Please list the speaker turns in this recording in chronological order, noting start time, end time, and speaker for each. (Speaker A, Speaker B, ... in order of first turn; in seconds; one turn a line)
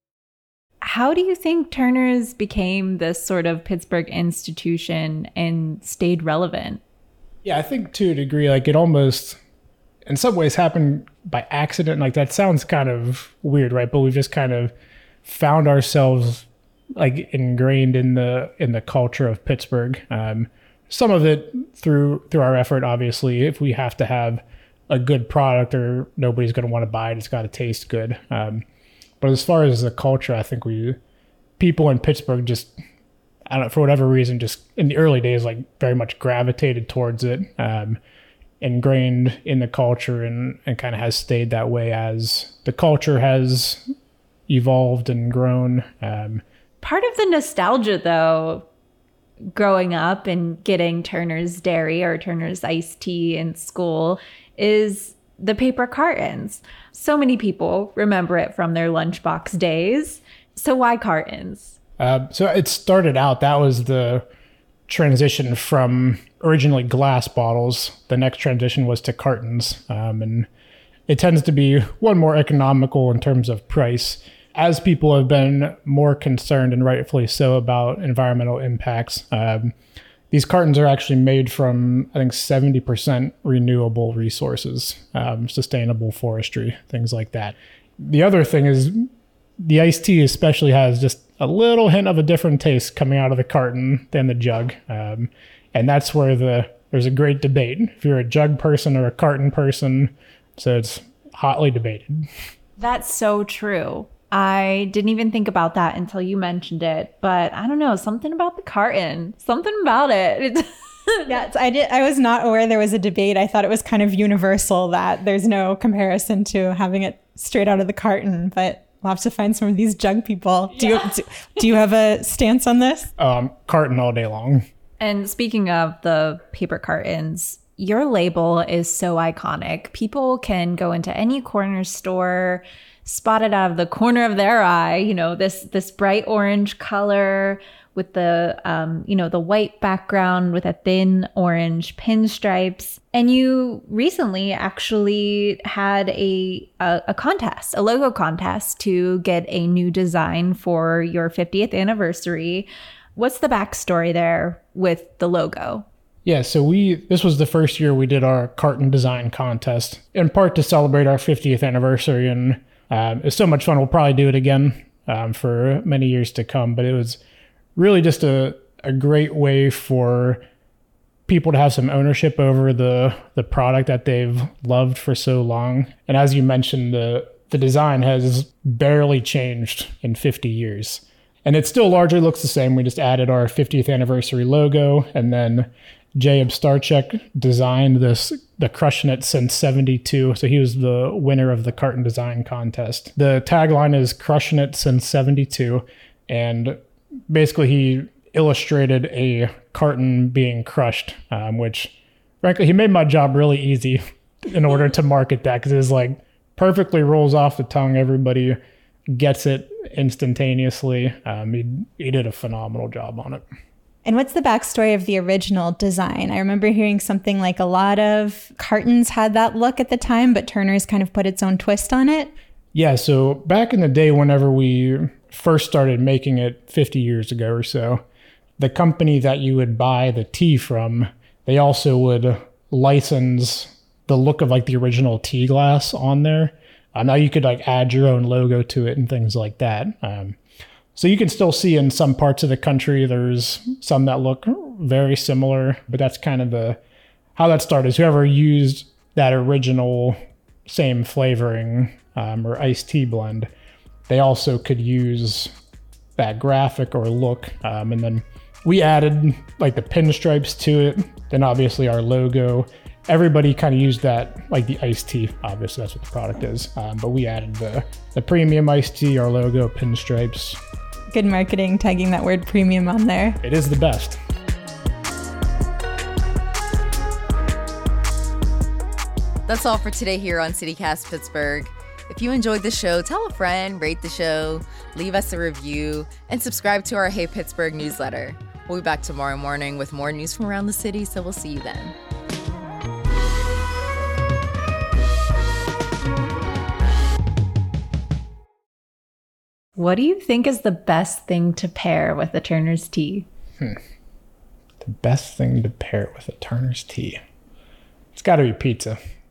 Speaker A: 0.8-6.8
Speaker B: 7.4-9.4
Speaker B: 10.1-14.7
Speaker B: 15.2-28.6
Speaker B: 29.2-31.0
Speaker B: 31.6-32.7
Speaker B: 33.5-38.0
Speaker B: 38.6-43.8
Speaker B: 44.5-46.4
Speaker A: 46.8-48.7
Speaker A: 49.5-61.8
Speaker B: 62.0-64.2
Speaker B: 64.9-70.5
Speaker B: 71.1-79.7
Speaker B: 80.3-89.1
Speaker B: 89.6-102.3
Speaker A: 102.8-111.3
Speaker C: 111.3-123.1
Speaker A: 120.7-121.0
Speaker B: 123.2-124.6
Speaker A: 125.0-155.8
Speaker B: 156.2-167.2
Speaker B: 167.8-170.4
Speaker B: 171.3-196.8
Speaker B: 197.3-208.6
Speaker B: 209.1-213.4
Speaker C: 214.0-222.3
Speaker B: 222.7-228.0
Speaker B: 228.6-240.4
Speaker B: 240.9-246.8
Speaker B: 247.3-250.2
Speaker B: 250.7-253.5
Speaker B: 254.1-255.5
Speaker B: 256.2-270.6
Speaker C: 271.1-273.4
Speaker B: 273.4-274.2
Speaker D: 279.5-291.9
Speaker A: 299.8-303.2
Speaker B: 304.8-307.2
Speaker B: 308.1-309.0